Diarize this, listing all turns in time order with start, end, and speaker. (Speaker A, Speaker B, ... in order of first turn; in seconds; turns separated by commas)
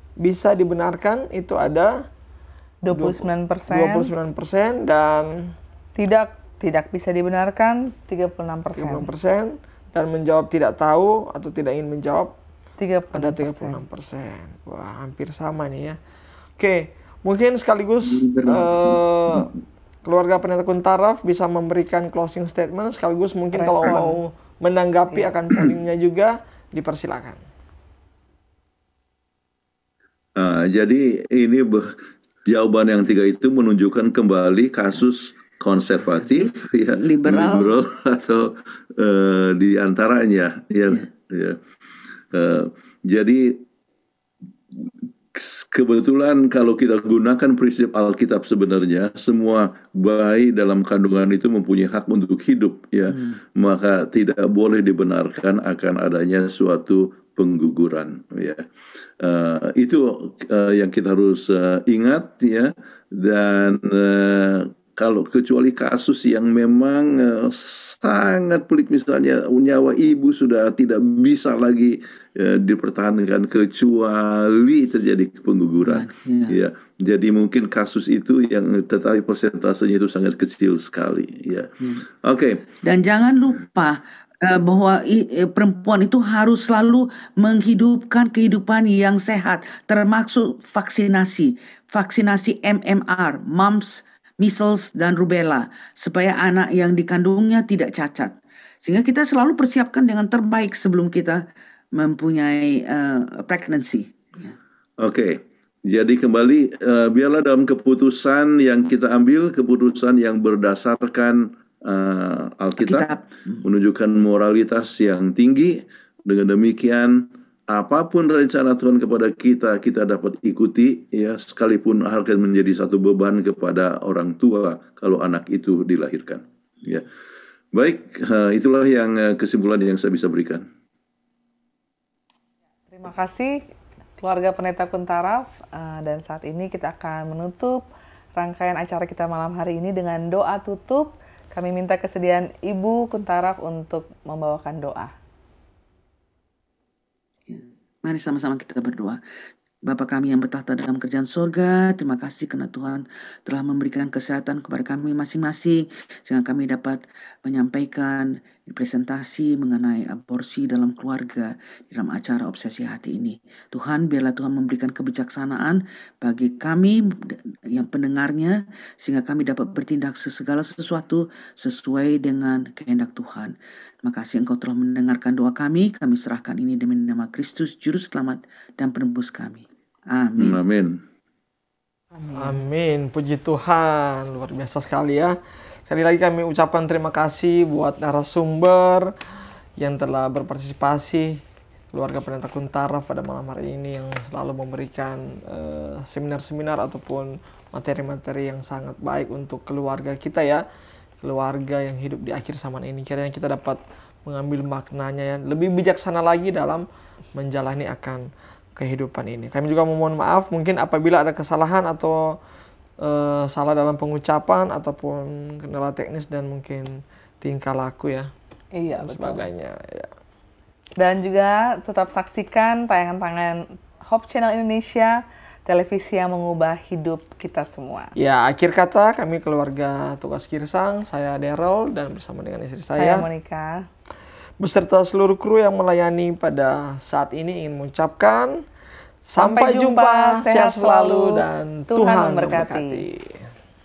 Speaker A: 0.2-2.0, Speaker B: 2.8-4.1, Speaker A: 2.9-5.5, Speaker B: 6.0-9.1, Speaker A: 8.8-12.3, Speaker B: 12.8-13.8, Speaker A: 13.1-16.0, Speaker A: 16.6-19.5, Speaker C: 18.1-19.5, Speaker A: 20.0-27.4, Speaker B: 23.5-24.2, Speaker C: 30.4-31.9, Speaker C: 32.5-41.6, Speaker D: 36.2-37.8, Speaker C: 42.3-43.6, Speaker C: 45.3-58.6, Speaker D: 53.1-53.4, Speaker C: 59.2-82.7, Speaker D: 75.8-76.6, Speaker D: 82.8-101.4, Speaker D: 101.9-104.5, Speaker C: 105.0-113.1, Speaker D: 112.8-113.6, Speaker C: 113.6-127.1, Speaker C: 127.7-130.6, Speaker B: 132.9-133.6, Speaker B: 134.2-137.8, Speaker B: 138.4-145.1, Speaker D: 147.5-149.2, Speaker D: 149.8-180.6, Speaker C: 180.4-181.0, Speaker B: 182.2-182.6, Speaker A: 182.3-185.3, Speaker A: 185.9-189.1, Speaker A: 189.8-191.4, Speaker A: 191.9-200.6, Speaker A: 201.2-212.4, Speaker A: 213.0-218.3, Speaker B: 218.7-219.4, Speaker A: 219.0-220.1, Speaker B: 221.0-225.1, Speaker B: 225.7-228.1, Speaker A: 228.2-233.2, Speaker B: 232.9-233.8, Speaker A: 234.6-238.6, Speaker A: 239.2-243.5, Speaker B: 239.4-243.0